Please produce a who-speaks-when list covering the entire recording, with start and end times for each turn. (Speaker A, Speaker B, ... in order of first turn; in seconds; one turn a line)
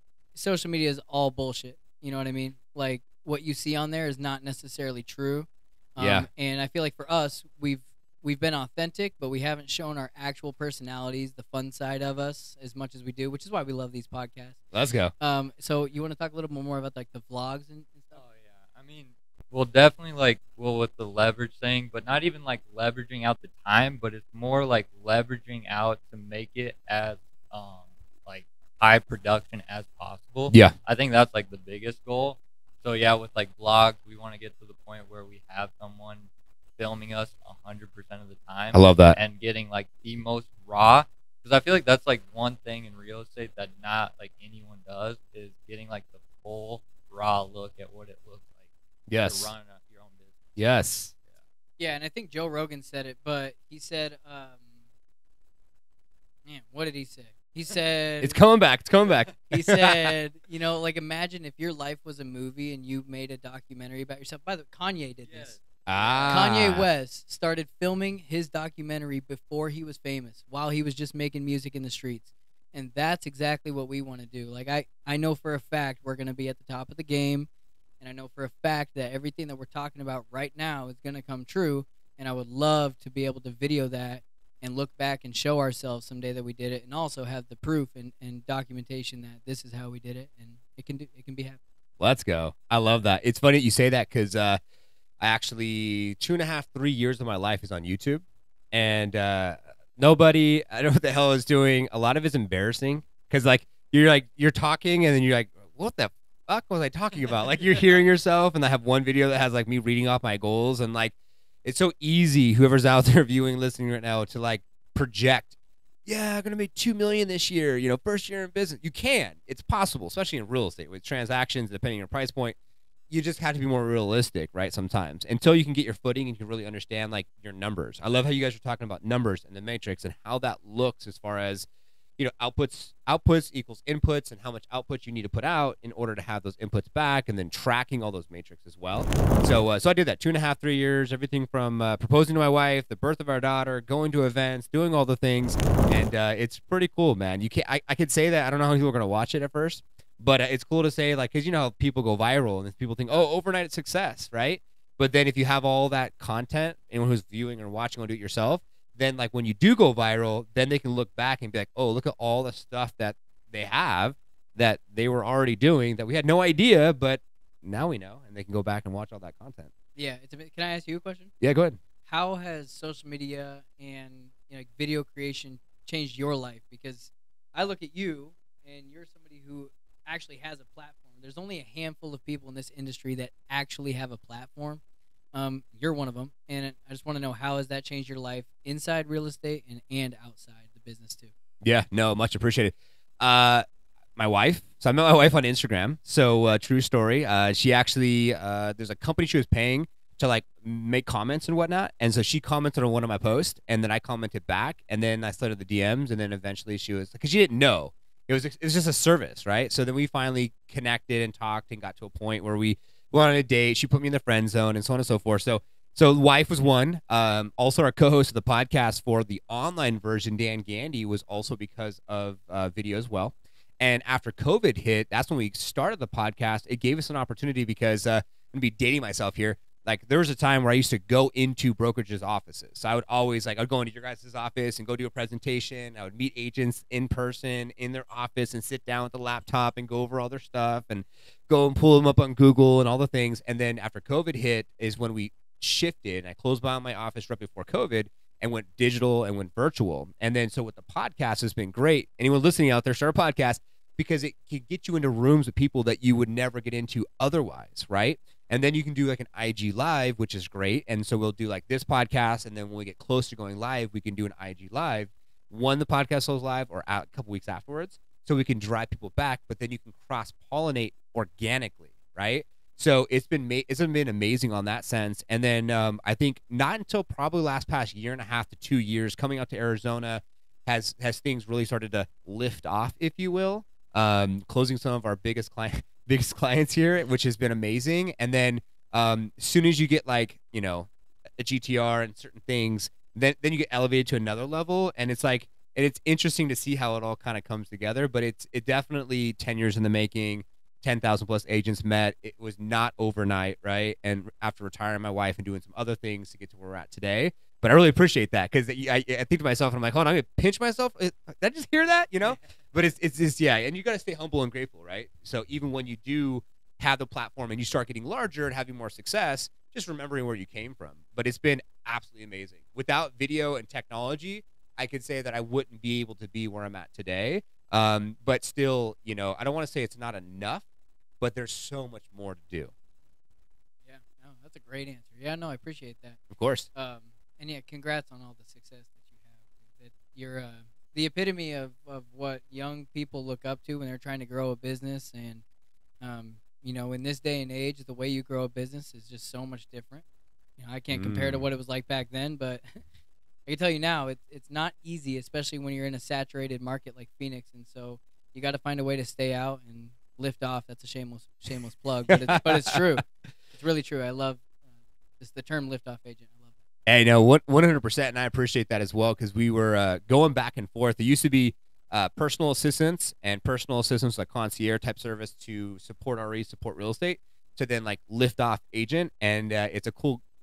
Speaker A: 0.3-14.6
Speaker B: 6.0-6.3
Speaker B: 14.7-15.1
Speaker A: 15.2-18.2
Speaker C: 18.1-48.6
Speaker B: 38.7-39.2
Speaker B: 49.1-49.5
Speaker C: 49.1-50.5
Speaker B: 50.6-51.1
Speaker A: 51.8-54.6
Speaker A: 56.5-58.4
Speaker B: 58.2-60.1
Speaker A: 59.5-65.6
Speaker C: 65.3-66.6
Speaker B: 65.9-66.9
Speaker A: 66.3-77.5
Speaker A: 78.0-91.6
Speaker B: 92.0-94.6
Speaker B: 95.2-115.5
Speaker B: 116.1-122.6
Speaker B: 123.1-131.7
Speaker B: 132.2-169.7
Speaker A: 170.0-171.3
Speaker B: 171.4-171.8
Speaker A: 172.1-184.8
Speaker A: 185.3-191.3
Speaker B: 191.6-193.7
Speaker B: 194.2-330.6
Speaker B: 331.2-332.7
Speaker A: 333.9-336.2
Speaker B: 336.3-336.7
Speaker A: 336.8-345.4
Speaker A: 346.0-350.1
Speaker A: 350.6-352.8
Speaker B: 350.9-351.4
Speaker A: 353.5-364.5
Speaker B: 362.1-363.0
Speaker A: 365.2-366.5
Speaker B: 366.9-380.2